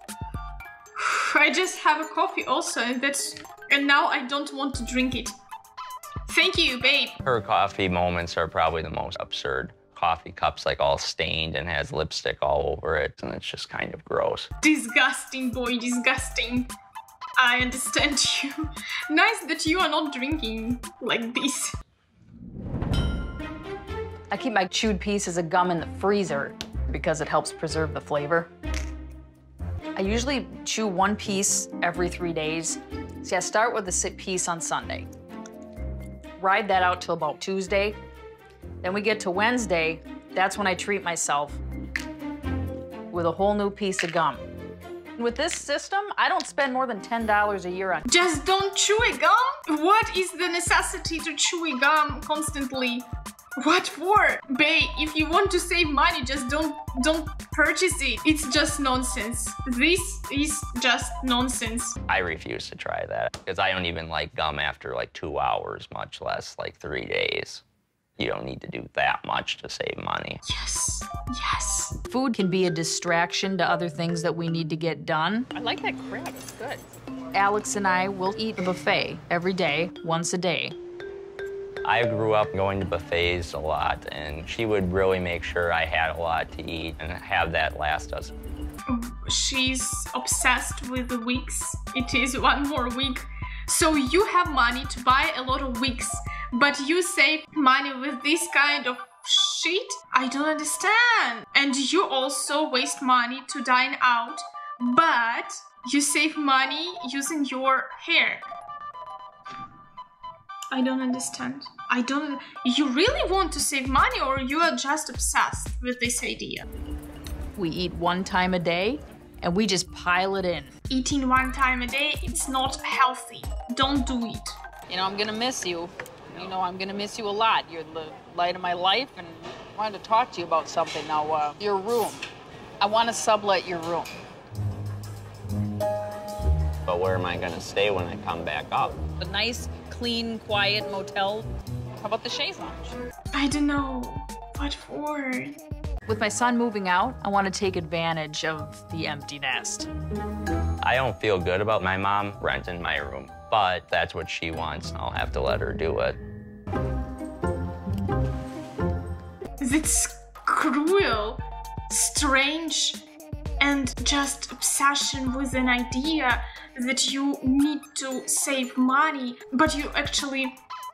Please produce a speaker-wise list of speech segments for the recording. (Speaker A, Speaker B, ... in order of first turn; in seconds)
Speaker A: 1.0-5.3, 6.3-7.2, 14.6-16.7, 17.4-21.7, 48.1-62.0, 70.5-72.0, 88.9-108.5, 110.7-116.7, 120.9-124.5, 143.3-145.6, 159.6-163.0, 163.6-170.6
Speaker B: 7.2-14.5, 62.1-67.6, 68.2-70.4, 81.8-88.3, 136.9-139.0, 150.8-156.2
Speaker C: 24.3-28.5, 29.9-35.1, 36.4-38.0, 38.8-41.6, 43.1-44.5, 45.2-48.0, 72.1-80.8, 117.6-120.7, 124.9-132.2, 132.8-134.1, 139.2-143.0, 146.1-149.9